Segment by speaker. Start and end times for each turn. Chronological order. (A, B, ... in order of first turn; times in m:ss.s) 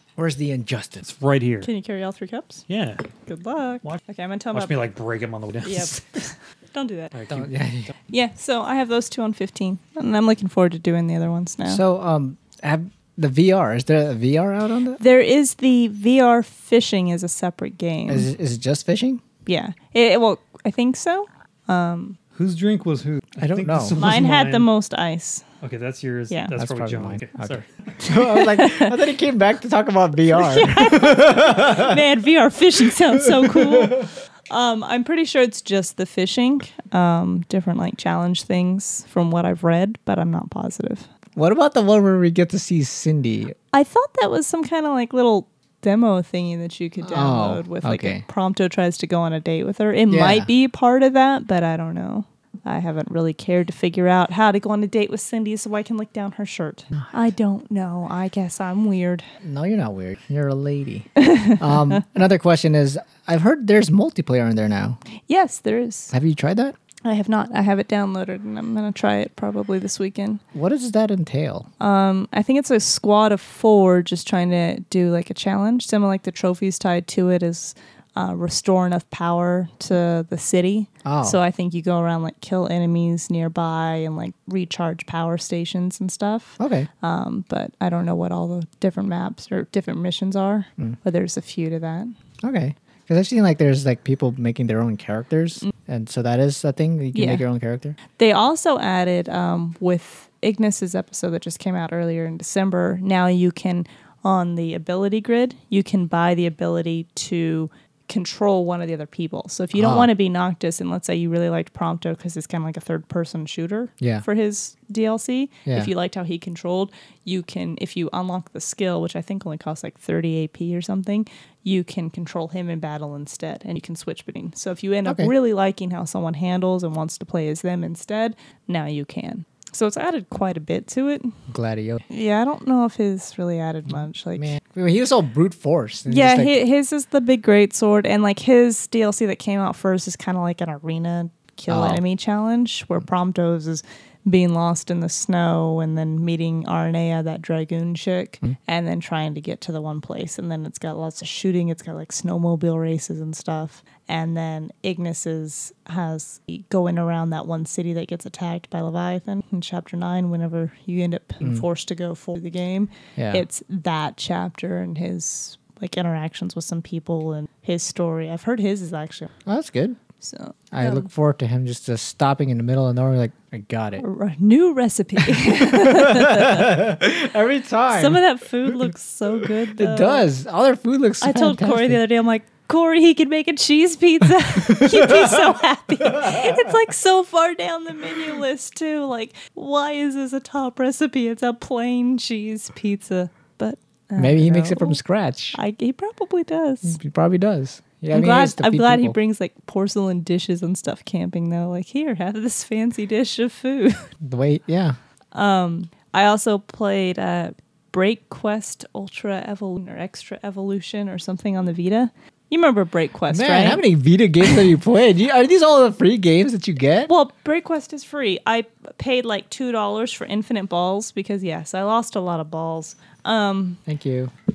0:00.2-0:01.0 A
0:01.0-0:01.7 B
0:01.6-0:02.6 C
0:02.7-0:03.0 B
0:03.2-0:04.8 C
0:04.5-0:06.3 B
0:05.6-0:07.1 C
0:07.1-0:07.6 B
0:07.3-0:07.9 A
0:08.1-0:11.8 C
0:11.6-0:15.0 A
0:15.0-0:18.3 C
0:18.1-0:19.2 A
0:19.5-0:22.2 C
0:22.4-0:24.7 B
0:23.4-0:24.0 A
0:24.0-0:25.4 C
0:25.6-0:27.6 B
0:26.6-0:32.0 A
0:28.0-0:29.0 C
0:30.3-0:41.1 C
0:33.2-0:34.0 A
0:41.4-0:43.6 A
0:43.7-0:59.3 C
0:47.0-0:48.2 A
0:50.1-0:50.5 A
0:59.4-1:05.0 A
1:01.2-1:01.6 C
1:05.3-1:06.1 C
1:06.1-1:06.8 A
1:07.0-1:10.4 C
1:10.5-1:11.7 A
1:11.8-1:32.1 C
1:21.0-1:21.4 A
1:26.6-1:26.9 A
1:32.4-1:38.0 A
1:37.1-1:37.4 C
1:38.2-2:11.3 C
1:49.8-1:50.1 A
1:55.7-1:55.9 A
2:05.0-2:05.3 A
2:11.5-2:12.0 A
2:12.1-2:14.5 C
2:14.4-2:16.6 A
2:16.1-2:49.3 C
2:21.7-2:22.0 A
2:43.2-2:43.4 A
2:49.5-2:50.0 A
2:50.2-2:51.1 C
2:50.7-2:54.0 A
2:54.0-2:57.0 C
2:55.3-2:58.2 A
2:57.9-3:00.3 C
2:59.8-3:02.0 A
3:01.2-3:15.0 C
3:04.6-3:05.5 A
3:06.0-3:06.7 A
3:14.2-3:15.6 A
3:15.5-3:17.0 C
3:16.8-3:19.2 A
3:18.1-3:24.1 C
3:24.2-3:25.0 A
3:25.3-3:33.8 C
3:33.3-3:37.1 A
3:37.1-3:43.8 C
3:43.9-3:44.3 A